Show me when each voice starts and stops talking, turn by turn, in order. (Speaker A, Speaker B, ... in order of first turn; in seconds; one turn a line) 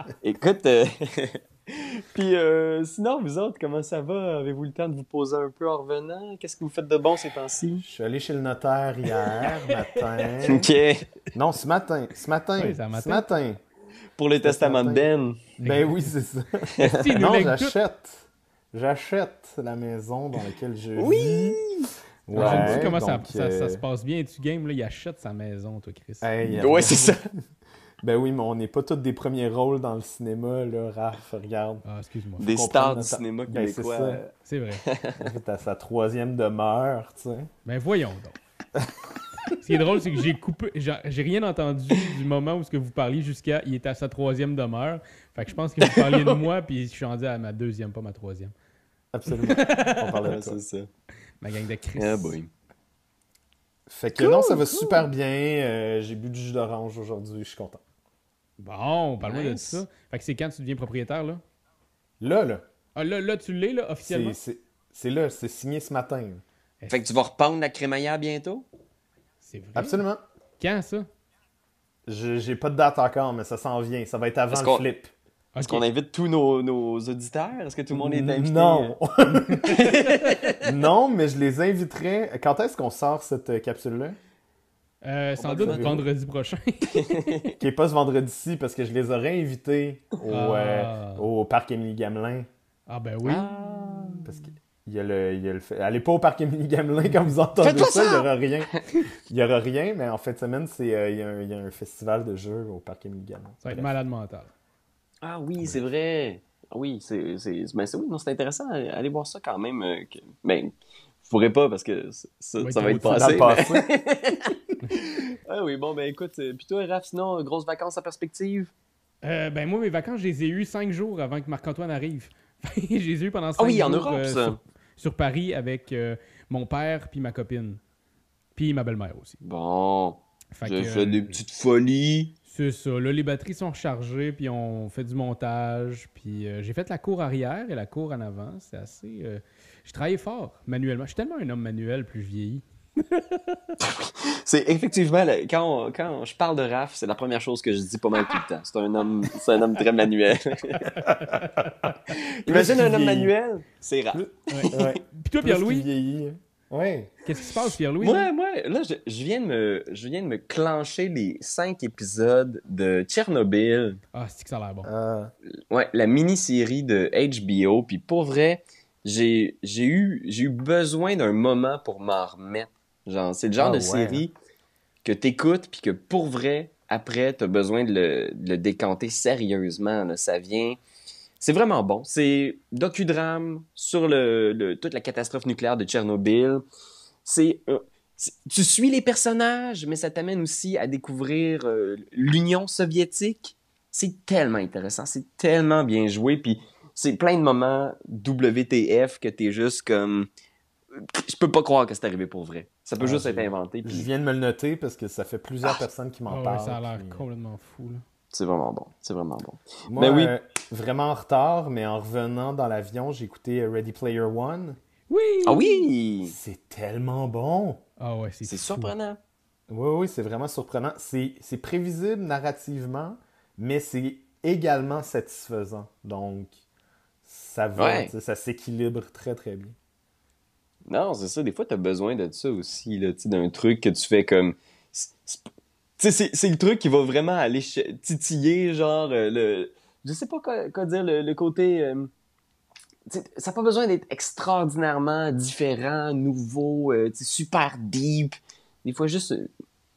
Speaker A: 0.2-7.8
Speaker B: 7.8-10.7
Speaker A: 10.4-11.1
Speaker B: 11.3-13.6
Speaker C: 12.6-13.3
Speaker A: 14.2-15.4
Speaker B: 14.4-21.6
Speaker C: 15.6-15.9
Speaker A: 16.8-17.1
Speaker C: 16.8-17.8
Speaker A: 20.9-22.9
Speaker B: 22.3-23.8
Speaker C: 22.3-26.6
Speaker B: 26.2-27.2
Speaker A: 26.6-27.2
Speaker B: 28.0-31.8
Speaker C: 31.8-32.5
Speaker A: 32.4-34.3
Speaker B: 32.4-34.2
Speaker C: 34.5-34.8
Speaker A: 34.8-35.3
Speaker B: 35.2-37.5
Speaker C: 37.6-38.4
Speaker C: 39.6-48.5
Speaker A: 45.8-46.4
Speaker B: 49.1-50.6
Speaker C: 49.3-50.1
Speaker A: 50.2-50.9
Speaker C: 51.4-52.4
Speaker A: 52.0-52.5
Speaker B: 53.9-57.8
Speaker A: 54.1-55.1
Speaker C: 58.6-61.4
Speaker A: 59.2-59.8
Speaker B: 62.2-62.6
Speaker C: 62.9-64.4
Speaker B: 64.0-66.4
Speaker A: 66.9-68.7
Speaker C: 69.4-70.0
Speaker B: 69.7-70.2
Speaker C: 70.6-71.1
Speaker B: 72.1-75.1
Speaker A: 74.5-74.8
Speaker C: 75.5-75.8
Speaker A: 75.6-79.0
Speaker B: 77.9-80.0
Speaker A: 79.7-80.7
Speaker C: 79.7-80.6
Speaker B: 80.6-84.2
Speaker C: 85.0-87.5
Speaker A: 85.4-86.0
Speaker B: 85.6-86.0
Speaker A: 86.9-87.5
Speaker B: 87.6-92.5
Speaker C: 90.3-91.3
Speaker C: 92.9-93.5
Speaker A: 93.2-94.3
Speaker B: 94.2-103.9
Speaker A: 97.6-98.8
Speaker C: 103.6-104.5
Speaker A: 105.2-110.7
Speaker A: 111.3-118.7
Speaker C: 112.6-113.5
Speaker B: 113.0-113.8
Speaker C: 119.2-127.8
Speaker A: 123.6-124.6
Speaker C: 128.6-129.4
Speaker A: 129.4-132.3
Speaker C: 130.5-131.4
Speaker C: 132.5-143.7
Speaker A: 143.8-150.9
Speaker C: 150.8-151.7
Speaker B: 151.2-153.3
Speaker A: 152.1-155.0
Speaker B: 154.1-157.1
Speaker C: 154.5-155.9
Speaker C: 157.2-158.3
Speaker A: 158.0-164.0
Speaker C: 164.1-164.9
Speaker B: 164.8-165.3
Speaker A: 165.7-174.3
Speaker B: 173.6-174.2
Speaker A: 175.0-180.8
Speaker A: 181.4-186.6
Speaker A: 187.2-200.3
Speaker A: 200.9-204.1
Speaker B: 203.0-207.2
Speaker C: 206.3-208.0
Speaker A: 208.3-210.3
Speaker B: 209.9-214.8
Speaker C: 215.1-215.8
Speaker A: 215.4-216.3
Speaker B: 216.2-217.8
Speaker C: 218.0-218.9
Speaker A: 218.4-219.2
Speaker B: 219.7-226.5
Speaker B: 227.2-229.7
Speaker A: 227.8-228.1
Speaker A: 230.9-235.4
Speaker A: 236.0-242.1
Speaker A: 243.1-249.5